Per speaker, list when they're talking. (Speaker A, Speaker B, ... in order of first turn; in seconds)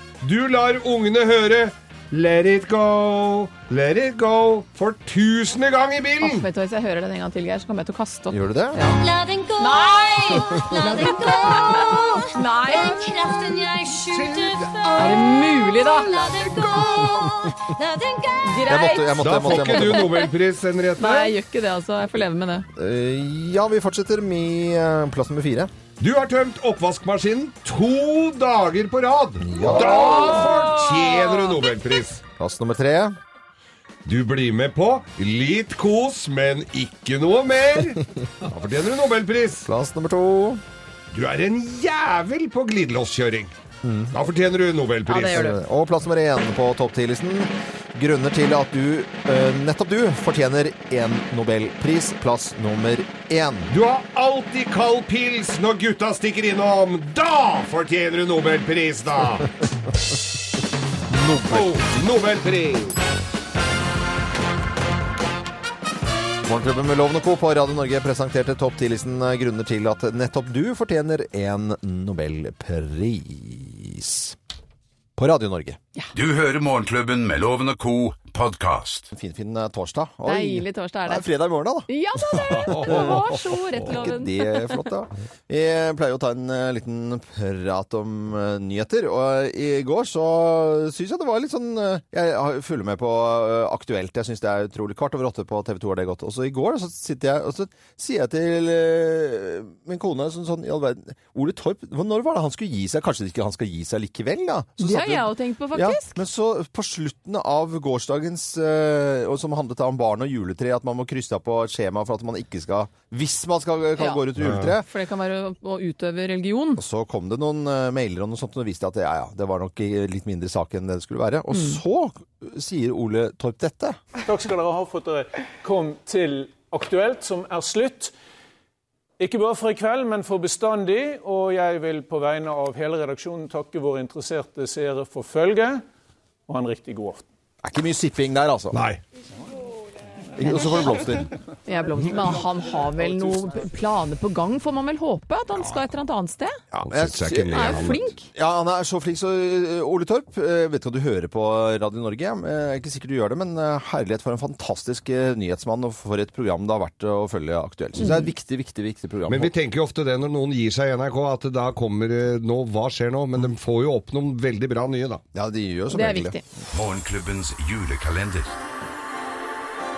Speaker A: 0.2-6.5, 14.1-15.3, 19.2-21.4, 26.0-32.2, 34.0-39.7, 41.1-43.5, 44.1-45.5, 53.7-59.5, 61.4-63.0, 82.5-83.4, 114.4-114.7, 138.7-139.0, 145.6-145.8, 146.7-148.1, 159.3-165.2
Speaker B: 6.2-9.0, 9.6-13.1, 14.9-16.6, 18.4-20.3, 21.0-22.7, 29.7-31.1, 80.2-81.3, 81.9-84.8, 104.8-106.2, 114.0-114.2, 114.8-116.8, 141.7-146.6, 147.5-148.3, 158.0-158.3, 165.9-166.4
Speaker C: 8.3-8.8, 18.6-20.1, 22.7-25.7, 29.4-30.4, 32.4-33.2, 39.7-40.6, 43.8-44.1, 45.1-53.7, 61.1-61.7, 66.4-74.3, 75.2-75.8, 79.1-81.9, 82.5-83.2, 83.8-114.8, 116.8-124.0, 137.6-138.8, 140.4-141.3, 146.8-159.5, 165.3-166.6
Speaker D: 8.9-18.7
Speaker E: 76.1-79.1, 166.7-168.5
Speaker F: 124.2-128.1, 129.2-135.8, 136.5-137.2